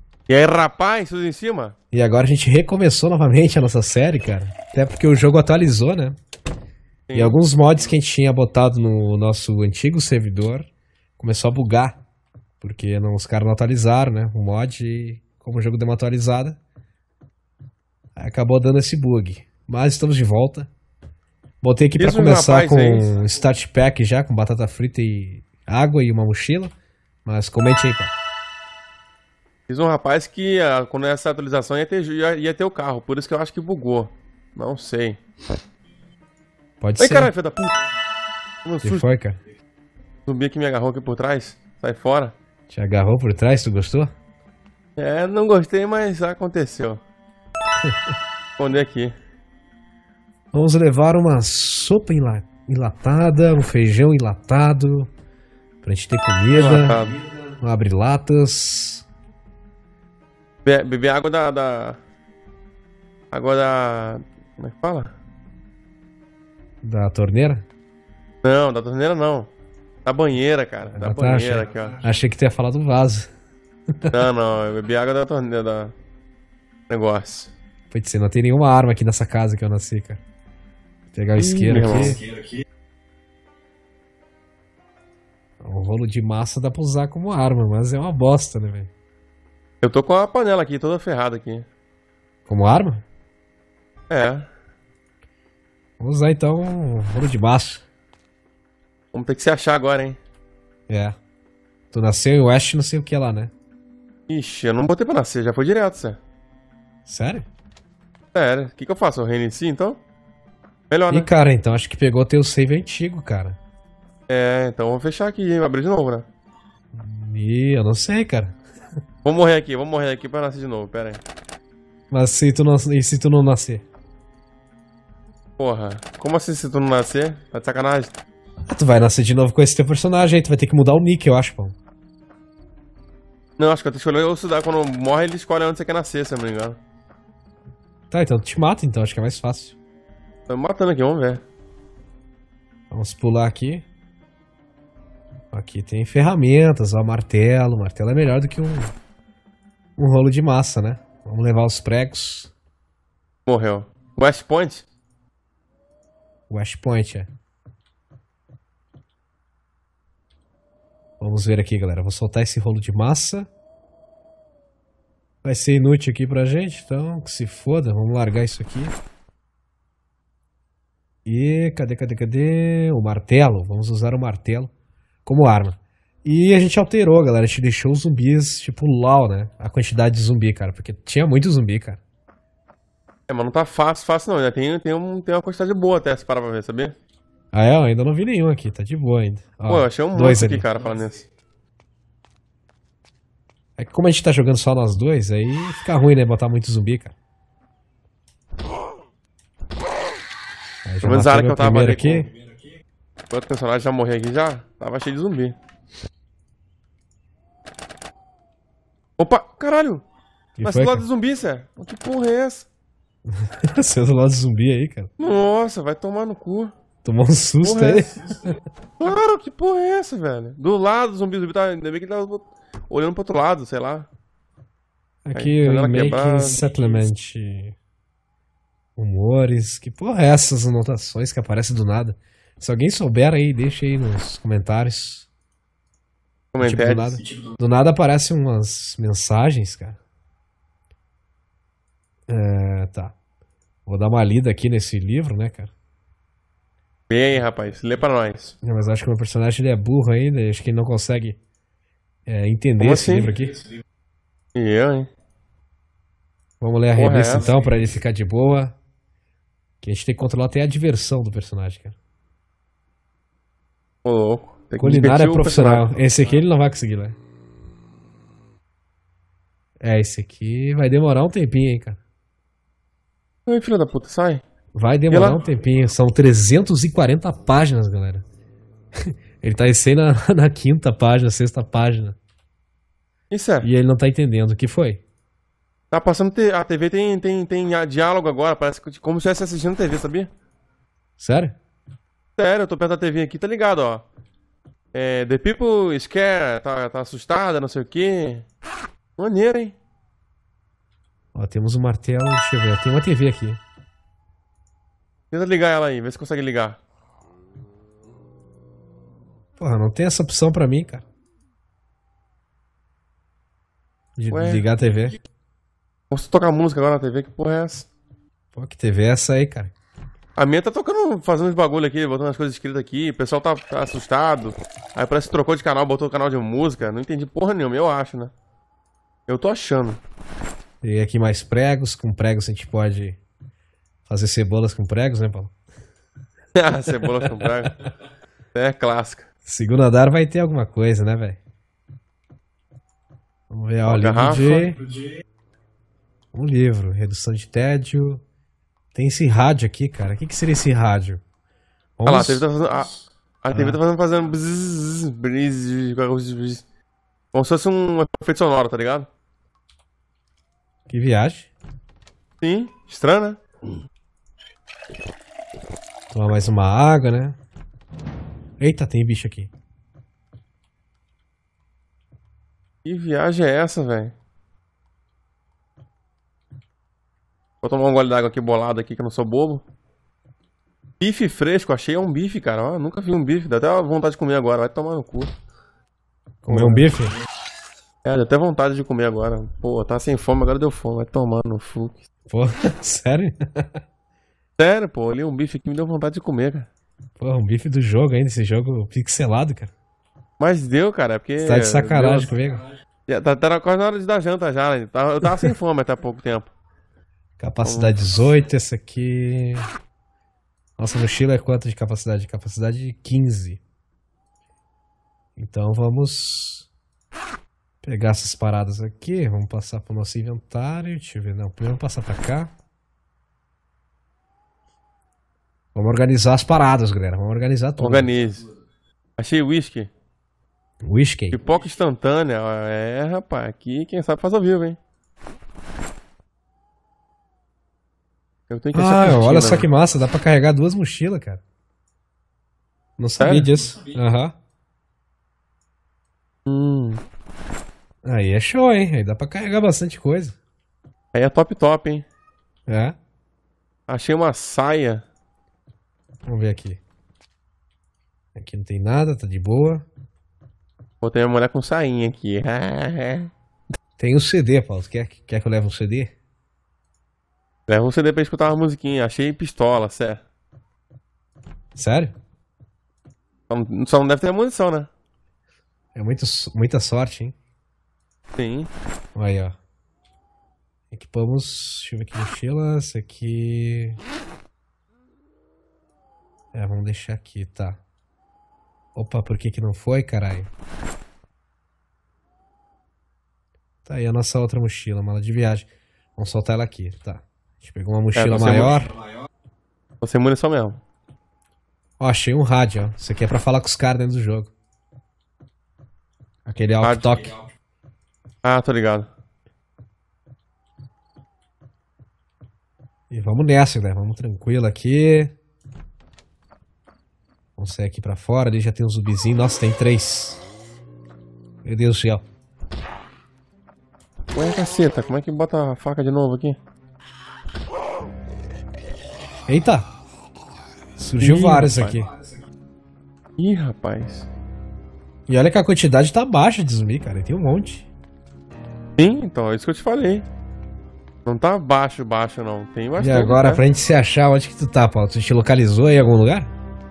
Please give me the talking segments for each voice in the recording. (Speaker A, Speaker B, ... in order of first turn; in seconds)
Speaker A: 0.3-1.8, 7.1-7.4, 22.0-23.1, 29.7-35.2, 37.0-37.8, 38.6-39.0, 40.3-42.4, 45.0-47.0, 48.6-49.2, 56.5-57.2, 60.6-62.0, 63.3-65.1, 68.4-69.5, 70.0-72.0, 74.1-75.9, 76.9-77.5, 81.4-82.2, 89.8-91.7, 94.1-94.5, 99.1-100.2, 104.3-106.2, 108.3-110.0, 110.9-111.3, 114.3-116.3, 119.2-121.2, 125.6-128.2, 133.6-136.8, 140.5-141.4, 153.5-154.8, 183.3-186.9, 189.7-191.2, 201.0-202.3, 203.3-205.6, 209.2-210.0, 210.6-212.7, 215.2-216.7, 217.6-218.2, 219.0-224.1, 225.3-227.0, 236.5-237.2, 247.1-248.6, 252.8-253.3, 254.6-255.1, 256.9-257.5, 264.0-265.9, 273.5-274.4, 275.1-275.4, 283.3-283.7, 285.9-290.3, 292.4-294.0, 294.9-298.4, 299.2-299.8, 305.3-306.8, 314.3-314.7, 316.1-317.9, 320.4-328.3, 329.3-330.0, 336.6-337.7, 338.5-339.3, 343.9-344.6, 352.1-352.9, 353.4-356.6, 357.3-359.1, 362.4-363.4, 372.9-374.1, 377.6-379.6, 381.0-385.3, 386.5-386.9, 388.1-392.0, 394.6-396.7, 400.4-402.3, 403.1-406.5, 407.6-407.9, 427.8-428.4, 429.2-429.9, 431.3-434.8, 438.5-439.7, 443.2-443.5, 446.5-447.0, 451.1-452.1, 453.9-455.0, 461.0-463.3, 467.7-470.2, 473.5-474.9, 478.4-478.7, 498.1-498.8, 500.0-500.8, 506.8-507.1, 508.4-509.1, 524.3-526.6, 531.2-532.0, 533.4-534.3, 539.0-540.3, 541.2-543.6
Speaker B: 1.9-6.2, 7.1-12.0, 12.6-16.6, 18.2-20.7, 21.6-26.7, 27.3-28.1, 36.8-37.3, 38.8-39.4, 42.7-44.1, 47.8-48.1, 50.5-55.1, 55.8-57.0, 57.6-59.0, 66.8-67.7, 71.0-73.3, 77.9-80.2, 81.1-82.2, 85.6-88.9, 92.5-93.0, 96.0-97.8, 100.9-101.2, 101.9-103.5, 107.1-107.5, 111.1-113.6, 116.9-118.6, 122.1-123.8, 128.7-131.8, 138.1-139.8, 142.9-143.9, 145.5-148.9, 150.0-152.5, 156.5-157.3, 161.2-163.5, 165.4-168.9, 171.3-174.7, 175.2-182.0, 187.5-190.7, 193.8-197.1, 200.8-202.3, 210.6-211.0, 213.3-215.1, 217.0-218.6, 225.2-227.8, 229.0-235.3, 236.6-240.0, 242.3-243.1, 243.9-245.7, 248.6-251.4, 252.3-253.6, 256.6-258.8, 259.8-262.0, 264.8-267.2, 269.8-272.0, 274.8-278.2, 279.1-282.2, 283.6-285.0, 291.2-291.6, 301.3-303.6, 309.6-311.1, 314.2-315.2, 318.5-319.7, 330.8-333.2, 334.1-335.5, 339.5-341.4, 343.5-344.8, 346.3-348.2, 348.9-351.2, 352.0-352.4, 353.5-353.8, 360.9-361.5, 366.1-367.4, 368.6-369.5, 386.4-387.2, 392.3-393.7, 397.2-399.7, 401.4-402.6, 407.4-409.7, 410.8-413.6, 415.4-416.7, 417.8-422.5, 425.8-428.1, 430.8-431.4, 438.7-441.4, 443.0-444.4, 448.1-450.4, 452.7-453.0, 456.3-456.8, 458.4-459.9, 464.0-466.1, 471.8-472.1, 475.9-477.4, 479.1-479.6, 480.9-484.0, 486.5-487.8, 488.9-490.5, 493.9-498.9, 502.0-504.5, 506.5-507.4, 513.1-515.4, 517.6-520.4, 521.6-522.2, 529.5-529.9, 531.0-532.1, 535.3-537.9, 543.0-546.5